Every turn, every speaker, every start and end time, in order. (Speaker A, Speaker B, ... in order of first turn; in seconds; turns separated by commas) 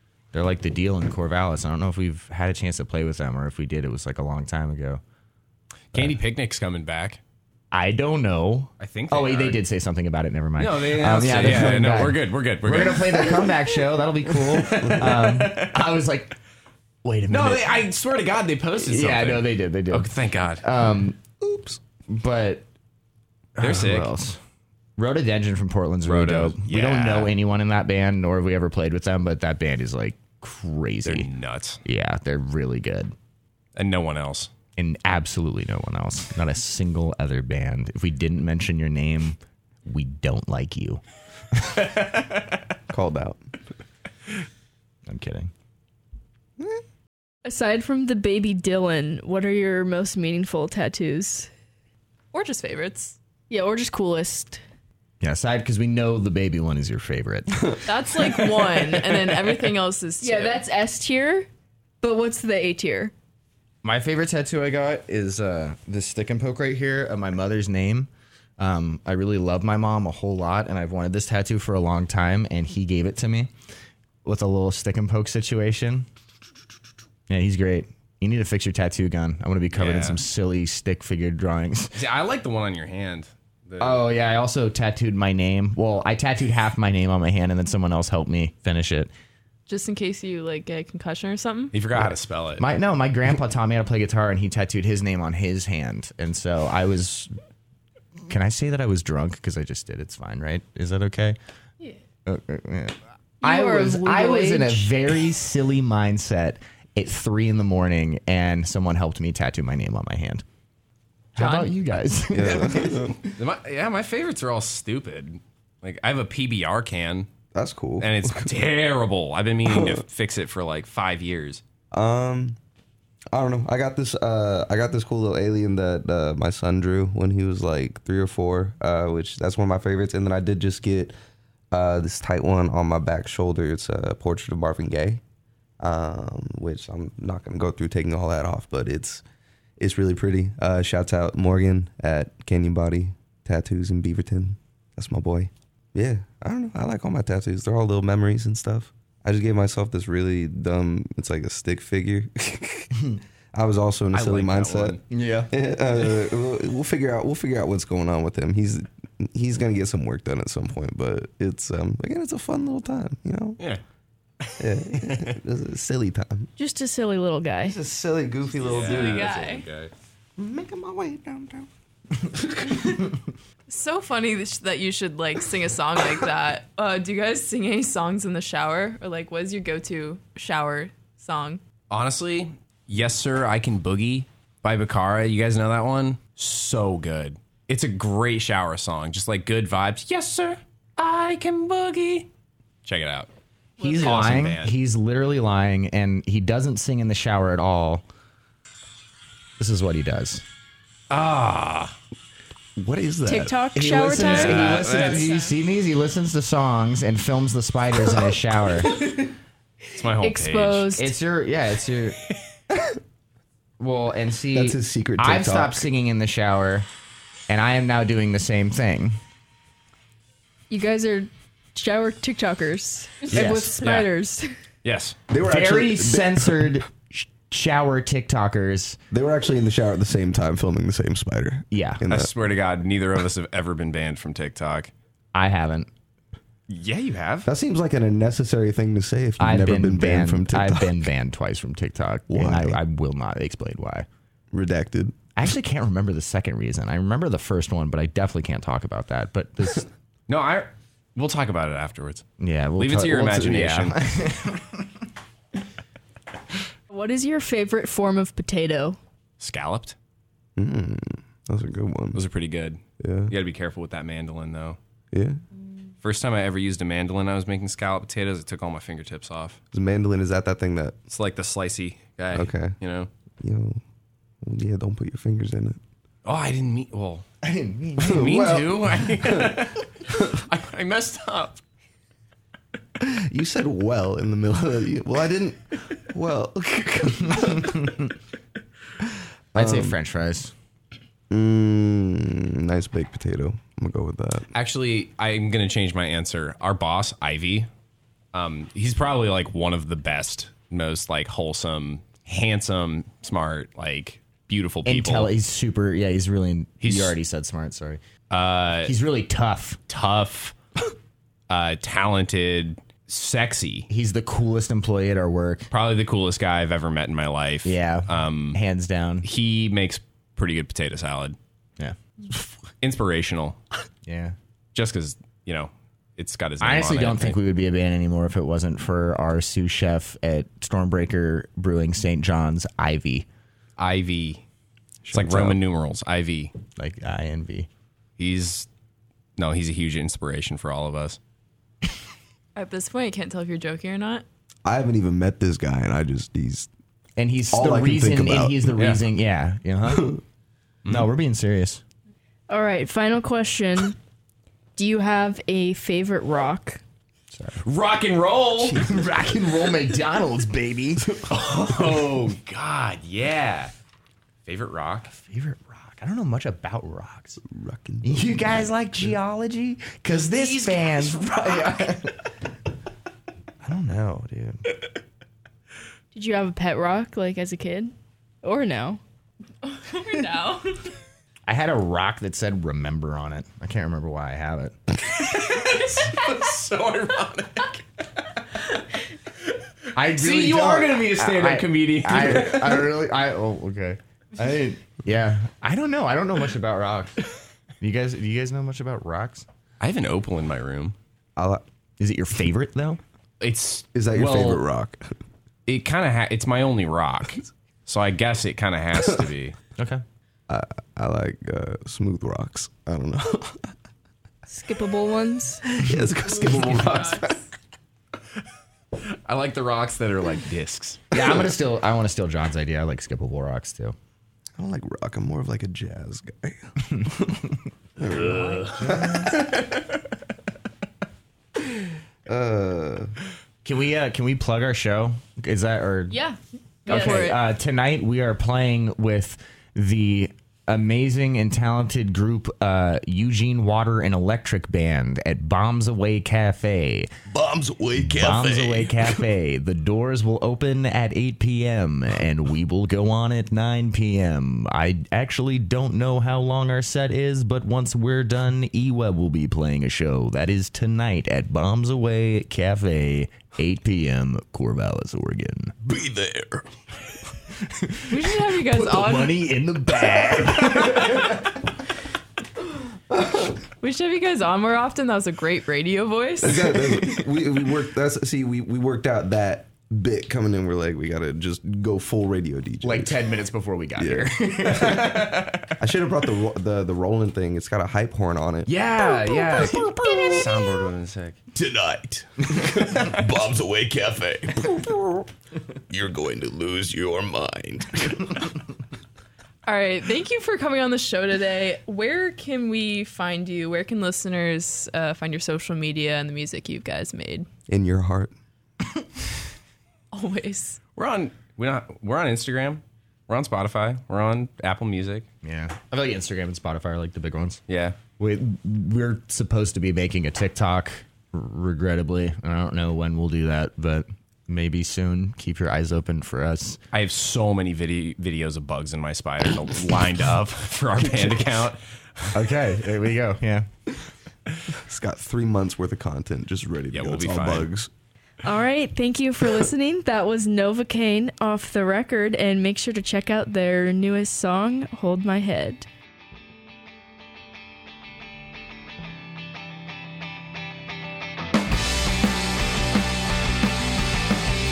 Speaker A: 0.3-5.0, Speaker B: 5.9-7.2, Speaker A: 7.7-16.4, Speaker B: 8.8-9.6, Speaker B: 10.6-13.6, Speaker B: 14.5-15.7, Speaker A: 17.0-17.7, Speaker B: 17.3-20.6, Speaker A: 18.8-21.4, Speaker C: 21.4-21.8, Speaker A: 22.1-22.6, Speaker A: 23.6-24.4, Speaker B: 23.6-24.1, Speaker A: 25.0-31.3, Speaker B: 26.1-27.3, Speaker B: 31.0-31.8, Speaker A: 31.8-33.1, Speaker B: 33.8-34.5, Speaker A: 34.8-41.0, Speaker A: 41.5-42.0, Speaker C: 42.9-43.4, Speaker A: 45.1-45.5, Speaker D: 47.4-51.5, Speaker E: 52.3-53.1, Speaker D: 53.5-54.6, Speaker A: 55.2-57.8, Speaker E: 57.9-60.6, Speaker D: 60.2-61.5, Speaker D: 62.0-63.1, Speaker A: 63.8-73.5, Speaker A: 74.2-76.1, Speaker A: 77.3-82.0, Speaker B: 79.7-80.2, Speaker B: 81.9-84.0, Speaker A: 83.8-89.1, Speaker E: 89.7-91.7, Speaker B: 91.7-92.6, Speaker A: 92.6-97.3, Speaker A: 98.3-101.4, Speaker A: 102.2-110.4, Speaker D: 103.4-105.0, Speaker A: 111.3-113.2, Speaker E: 111.4-111.7, Speaker C: 112.3-113.2, Speaker B: 113.3-117.3, Speaker C: 117.5-118.6, Speaker B: 118.0-121.6, Speaker C: 119.7-120.0, Speaker C: 121.9-122.6, Speaker C: 123.3-131.1, Speaker C: 131.7-135.2, Speaker C: 135.8-139.2, Speaker C: 139.8-155.0, Speaker B: 154.1-155.0, Speaker A: 155.1-155.5, Speaker C: 155.5-163.6, Speaker B: 164.4-165.4, Speaker C: 164.6-166.5, Speaker D: 166.6-167.8, Speaker C: 167.6-169.3, Speaker B: 168.6-169.9, Speaker E: 168.7-169.7, Speaker C: 170.4-171.7, Speaker C: 172.2-172.8, Speaker E: 173.7-181.6, Speaker B: 181.9-192.3, Speaker B: 192.8-193.3, Speaker A: 193.8-198.0, Speaker E: 193.8-194.2, Speaker B: 193.9-194.8, Speaker A: 199.6-200.4, Speaker B: 201.1-201.9, Speaker C: 202.8-203.6, Speaker D: 203.2-205.1, Speaker A: 203.7-209.0, Speaker B: 204.1-205.3, Speaker B: 209.9-210.9, Speaker D: 210.2-211.1, Speaker A: 210.9-212.2, Speaker A: 213.8-216.9, Speaker C: 214.5-215.9, Speaker A: 217.5-219.2, Speaker D: 220.7-224.5, Speaker A: 223.3-223.8, Speaker B: 223.3-224.1, Speaker B: 224.8-225.2, Speaker C: 225.3-226.8, Speaker A: 225.4-229.0, Speaker C: 229.1-232.3, Speaker A: 231.7-232.1, Speaker B: 232.1-234.9, Speaker A: 235.3-235.9, Speaker B: 236.7-237.5, Speaker C: 237.4-240.9, Speaker A: 239.4-244.1, Speaker C: 242.3-242.8, Speaker C: 244.5-245.2, Speaker A: 245.3-249.9, Speaker B: 250.3-252.2, Speaker A: 252.4-254.9, Speaker B: 252.8-254.0, Speaker D: 256.9-259.0, Speaker B: 259.4-259.9, Speaker C: 260.6-262.2, Speaker B: 262.1-264.8, Speaker C: 263.0-263.3, Speaker C: 265.1-265.4, Speaker B: 266.0-269.6, Speaker C: 269.7-271.0, Speaker B: 271.1-273.1, Speaker C: 272.3-272.8, Speaker C: 273.4-273.8, Speaker C: 274.4-275.8, Speaker B: 276.2-277.3, Speaker A: 277.4-278.4, Speaker B: 278.0-281.6, Speaker C: 278.0-280.4, Speaker C: 283.0-288.0, Speaker A: 287.4-288.0, Speaker C: 289.5-289.9, Speaker A: 289.5-290.5, Speaker C: 291.3-294.5, Speaker B: 294.5-297.7, Speaker B: 298.3-305.3, Speaker A: 304.8-308.0, Speaker B: 306.8-307.2, Speaker B: 308.3-308.9, Speaker A: 308.8-309.9, Speaker B: 309.9-310.5, Speaker B: 311.5-313.9, Speaker A: 313.9-315.7, Speaker B: 315.7-318.6, Speaker A: 317.6-319.2, Speaker B: 319.2-321.4, Speaker B: 322.8-323.6, Speaker A: 324.1-324.3, Speaker B: 324.7-327.4, Speaker A: 326.6-333.2, Speaker B: 333.8-334.4, Speaker C: 335.0-335.6, Speaker B: 335.1-336.5, Speaker A: 336.8-337.7, Speaker B: 338.2-338.7, Speaker B: 339.4-341.2, Speaker E: 342.5-344.2, Speaker C: 344.6-346.7, Speaker A: 347.2-350.2, Speaker C: 347.5-348.8, Speaker B: 348.8-349.0, Speaker C: 349.9-350.2, Speaker A: 350.9-351.8, Speaker D: 352.5-354.0, Speaker D: 354.8-356.8, Speaker A: 357.3-357.6, Speaker B: 357.6-358.9, Speaker C: 358.7-359.4, Speaker A: 358.7-361.2, Speaker B: 361.2-363.7, Speaker B: 364.4-365.1, Speaker A: 365.1-367.4, Speaker C: 367.4-368.8, Speaker A: 368.0-372.2, Speaker B: 370.2-371.9, Speaker A: 373.6-374.6, Speaker D: 376.1-379.0, Speaker E: 379.6-380.9, Speaker A: 381.5-384.8, Speaker B: 385.1-387.8, Speaker A: 389.9-397.2, Speaker B: 390.0-392.9, Speaker A: 397.8-399.4, Speaker B: 399.8-400.9, Speaker C: 401.4-401.6, Speaker A: 402.0-403.0, Speaker B: 403.4-404.6, Speaker C: 403.9-405.1, Speaker B: 405.6-409.6, Speaker C: 410.5-413.7, Speaker D: 414.5-415.6, Speaker C: 415.6-417.4, Speaker E: 416.2-417.3, Speaker B: 416.5-416.9, Speaker B: 419.0-421.1, Speaker A: 421.1-423.9, Speaker C: 424.6-429.6, Speaker B: 428.1-429.4, Speaker C: 432.2-433.1, Speaker A: 433.6-436.2, Speaker E: 436.9-437.3, Speaker D: 436.9-437.4, Speaker A: 436.9-447.1, Speaker C: 447.3-449.2, Speaker A: 448.0-465.8, Speaker C: 465.8-466.7, Speaker A: 467.6-471.4, Speaker E: 468.1-469.4, Speaker C: 470.1-471.2, Speaker C: 473.1-473.6, Speaker E: 473.8-476.8, Speaker C: 476.4-483.3, Speaker A: 482.8-485.7, Speaker C: 484.0-488.7, Speaker B: 488.7-491.4, Speaker A: 489.0-490.0, Speaker C: 489.6-490.5, Speaker C: 491.5-495.3, Speaker C: 495.9-498.6, Speaker E: 499.6-507.5, Speaker C: 507.7-508.3, Speaker E: 510.1-510.8, Speaker B: 510.9-515.2, Speaker A: 515.4-517.6, Speaker B: 517.7-518.0, Speaker A: 518.2-526.8, Speaker B: 526.9-532.3, Speaker A: 532.3-533.7, Speaker C: 534.7-537.9, Speaker B: 536.9-537.7, Speaker D: 538.4-545.9